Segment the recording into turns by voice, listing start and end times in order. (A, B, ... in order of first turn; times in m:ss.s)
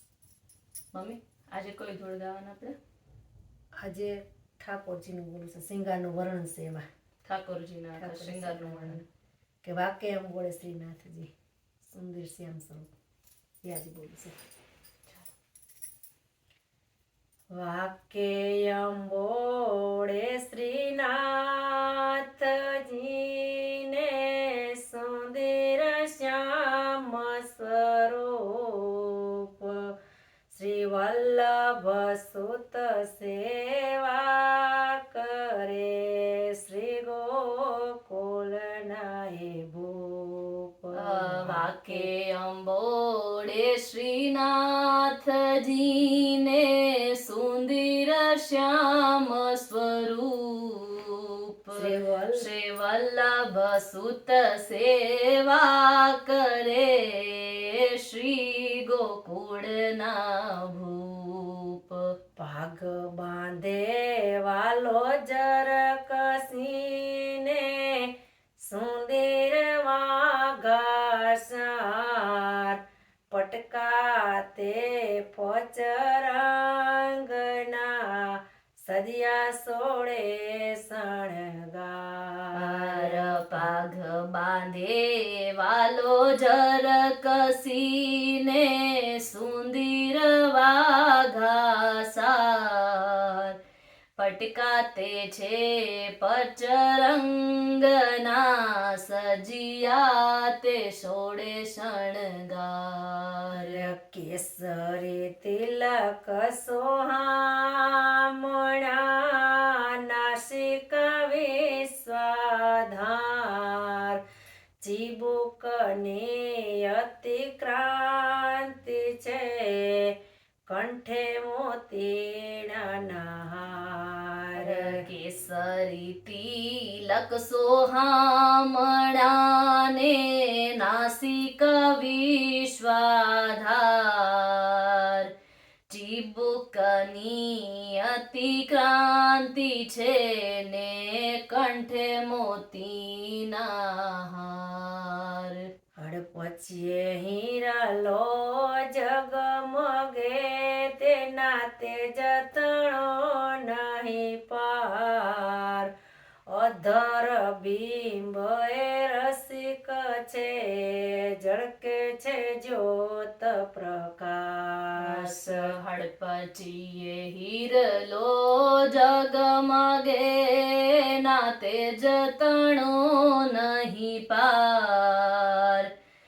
0:00.9-0:02.8 A
0:03.8-0:06.8 B
0:07.2-0:09.0 A
0:08.0-0:09.0 B
0:09.6-0:11.3 B
0:11.9-0:12.9 B
0:13.6-0:14.4 B
0:17.5-0:29.9 B
0:30.5-0:42.1 B
0:41.0-1:02.0 A
0:51.7-0:52.5 B
1:02.4-1:08.1 B
1:08.6-1:12.8 B
1:13.3-1:23.7 B
1:22.6-1:33.6 A
1:34.2-1:43.9 A
1:43.5-1:54.2 B
1:54.8-2:05.0 B
2:04.6-2:15.3 A
2:15.9-2:25.6 A
2:26.0-2:35.9 B
2:36.5-2:45.7 B
2:45.0-2:55.9 A